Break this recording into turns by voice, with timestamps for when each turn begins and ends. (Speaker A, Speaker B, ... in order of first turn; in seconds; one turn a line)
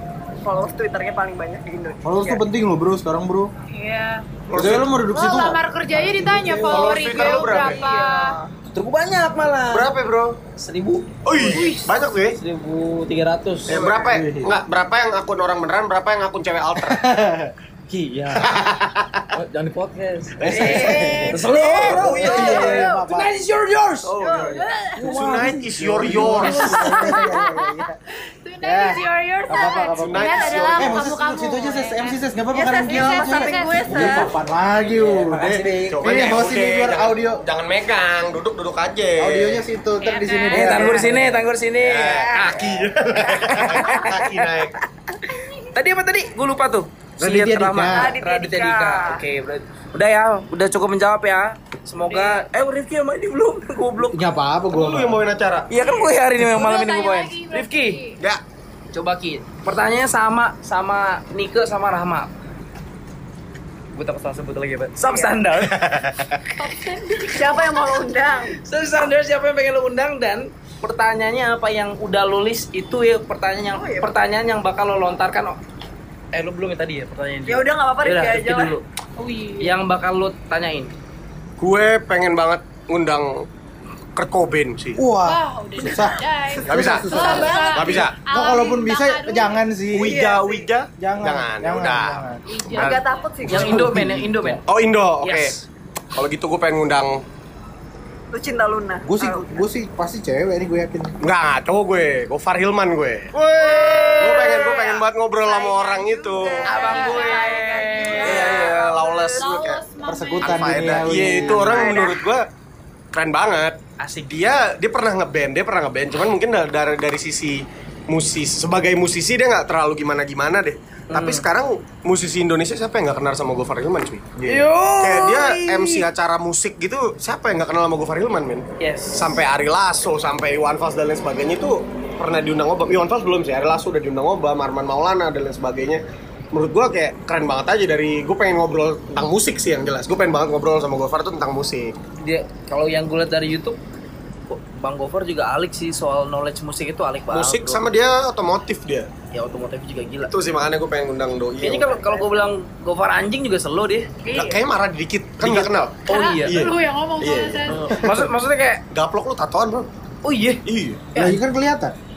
Speaker A: 0.4-2.4
Speaker B: 2.0-3.5
Speaker C: 3.7-4.2
Speaker D: 4.5-5.0
Speaker B: 4.5-5.6
Speaker C: 5.1-8.4
Speaker E: 5.9-7.5
Speaker D: 6.7-7.8
Speaker A: 7.6-8.3
Speaker E: 8.7-9.9
Speaker D: 9.7-10.3
Speaker E: 10.6-11.7
Speaker D: 11.2-12.4
Speaker C: 11.6-11.8
Speaker E: 12.3-13.8
Speaker D: 13.7-17.0
Speaker B: 13.7-14.6
Speaker B: 16.8-17.5
Speaker E: 17.9-18.5
Speaker D: 18.4-19.2
Speaker E: 19.3-24.1
Speaker D: 20.4-21.2
Speaker B: 20.4-23.3
Speaker C: 22.2-23.0
Speaker D: 24.1-26.9
Speaker A: 24.2-24.4
Speaker C: 24.5-24.9
Speaker E: 24.9-27.2
Speaker B: 25.8-28.0
Speaker C: 26.5-27.7
Speaker C: 28.4-32.2
Speaker B: 28.6-37.4
Speaker D: 29.9-31.1
Speaker A: 32.5-34.3
Speaker C: 32.8-33.9
Speaker E: 34.9-36.0
Speaker D: 35.9-39.6
Speaker B: 39.2-41.2
Speaker C: 40.0-41.2
Speaker E: 40.5-42.3
Speaker D: 41.8-44.8
Speaker E: 43.3-44.2
Speaker E: 45.7-54.1
Speaker B: 47.2-48.1
Speaker A: 47.9-49.2
Speaker C: 52.0-52.4
Speaker B: 54.1-55.2
Speaker D: 54.7-55.7
Speaker E: 55.7-58.0
Speaker C: 56.4-58.2
Speaker E: 58.9-62.3
Speaker E: 63.9-66.1
Speaker A: 65.0-65.4
Speaker A: 67.3-68.5
Speaker E: 68.6-75.6
Speaker A: 73.7-74.1
Speaker E: 76.3-78.8
Speaker A: 77.5-78.8
Speaker C: 79.2-79.7
Speaker E: 79.6-80.9
Speaker D: 81.6-83.5
Speaker D: 84.2-85.0
Speaker B: 85.0-90.3
Speaker C: 85.2-89.8
Speaker D: 86.7-88.2
Speaker A: 87.1-87.9
Speaker D: 89.9-92.2
Speaker A: 90.0-90.7
Speaker B: 91.0-92.4
Speaker C: 92.5-93.3
Speaker A: 92.8-93.9
Speaker E: 92.8-94.6
Speaker B: 93.5-94.6
Speaker D: 94.7-95.5
Speaker E: 95.2-95.6
Speaker D: 96.1-97.2
Speaker A: 98.3-99.6
Speaker B: 99.0-101.2
Speaker D: 101.2-107.2
Speaker A: 103.6-109.4
Speaker C: 106.7-108.7
Speaker E: 106.7-108.6
Speaker D: 108.2-109.8
Speaker C: 109.4-110.9
Speaker B: 110.0-111.9
Speaker D: 110.4-112.5
Speaker A: 111.7-112.2
Speaker D: 113.1-113.8
Speaker E: 114.0-114.3
Speaker D: 114.3-124.4
Speaker E: 121.1-121.5
Speaker E: 124.5-126.0
Speaker D: 125.0-141.9
Speaker E: 128.8-129.3
Speaker E: 142.2-143.8
Speaker E: 144.5-147.8
Speaker D: 147.3-149.1
Speaker E: 149.3-150.3
Speaker D: 150.2-151.9
Speaker E: 151.6-154.1
Speaker A: 152.0-152.3
Speaker A: 154.2-154.5
Speaker D: 154.3-157.7
Speaker E: 155.4-156.6
Speaker C: 156.1-157.9
Speaker E: 157.7-158.8
Speaker D: 158.9-159.9
Speaker E: 160.2-160.6
Speaker D: 160.7-161.0
Speaker B: 161.2-161.9